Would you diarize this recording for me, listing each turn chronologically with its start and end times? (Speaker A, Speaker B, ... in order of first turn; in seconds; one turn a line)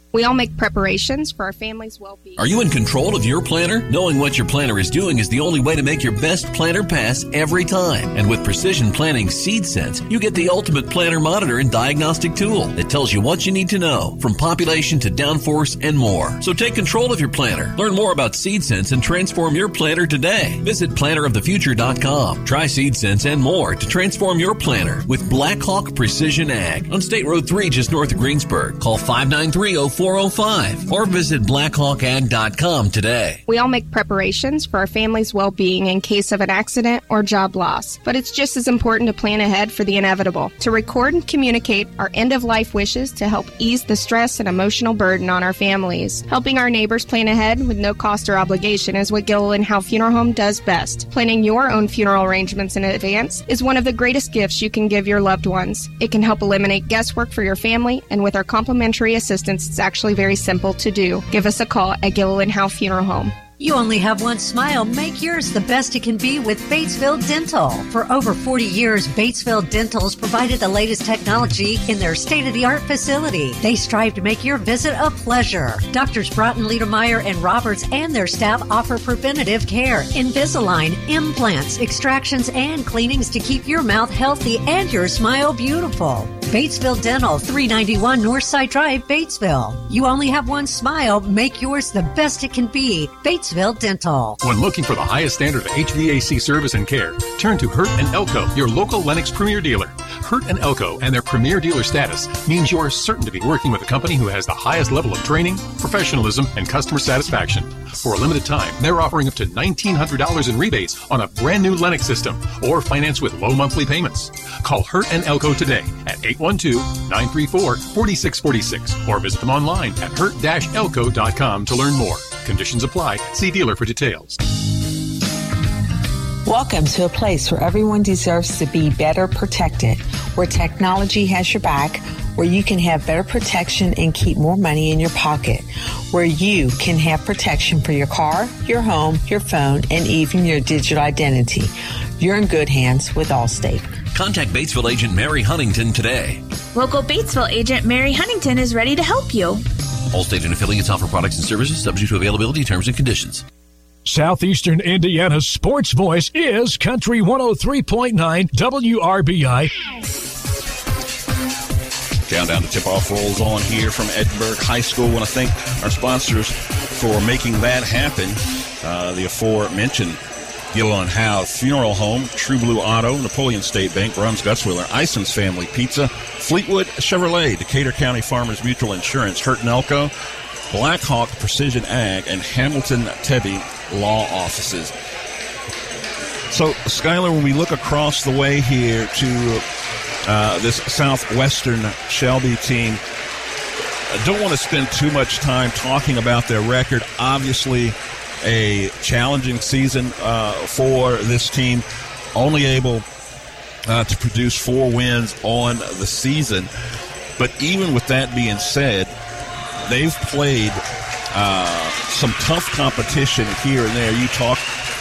Speaker A: 0.1-2.7
Speaker B: 2.4-33.4
Speaker A: 33.5-63.3
Speaker C: 63.6-94.4
Speaker D: 94.4-124.4
Speaker E: 126.5-143.9
Speaker B: 144.1-146.4
Speaker F: 146.7-149.6
Speaker B: 150.1-153.4
Speaker G: 154.1-159.7
Speaker H: 162.3-170.2
Speaker H: 170.7-180.1
Speaker H: 180.7-184.9
Speaker H: 186.5-189.6
Speaker H: 190.2-193.0
Speaker H: 194.1-203.0
Speaker H: 203.9-206.7
Speaker H: 207.4-209.1
Speaker H: 209.8-210.8
Speaker H: 211.3-214.7